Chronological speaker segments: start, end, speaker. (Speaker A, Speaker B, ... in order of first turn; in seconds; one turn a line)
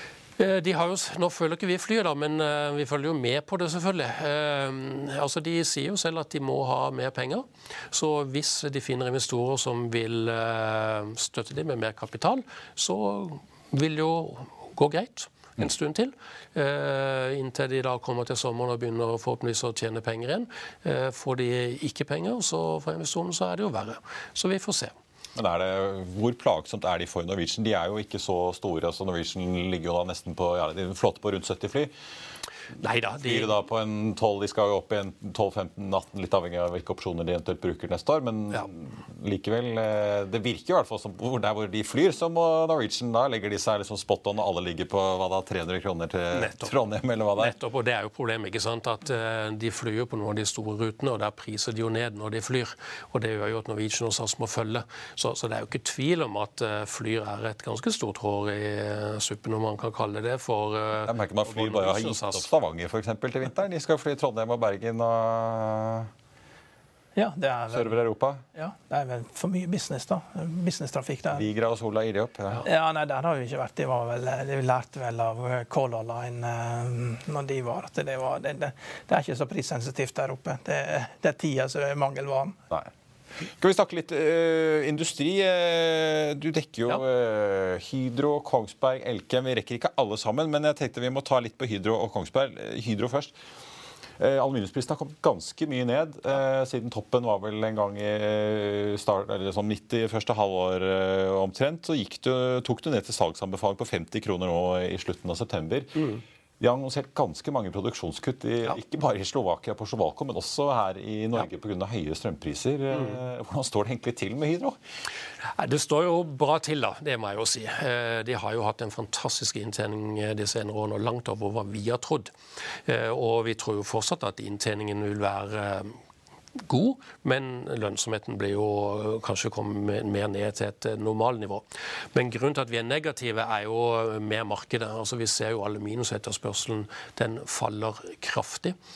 Speaker A: 0.4-24.9
Speaker B: 25.4-31.9
Speaker A: 32.8-33.5
Speaker B: 33.2-47.6
Speaker A: 46.3-46.7
Speaker A: 47.4-62.5
Speaker B: 61.0-66.1
Speaker C: 67.2-68.0
Speaker B: 67.7-68.4
Speaker C: 68.5-71.5
Speaker B: 71.3-72.6
Speaker C: 72.6-82.6
Speaker B: 83.5-93.3
Speaker B: 94.2-106.0
Speaker B: 106.6-114.8
Speaker A: 115.5-122.3
Speaker A: 122.8-126.0
Speaker A: 126.6-138.7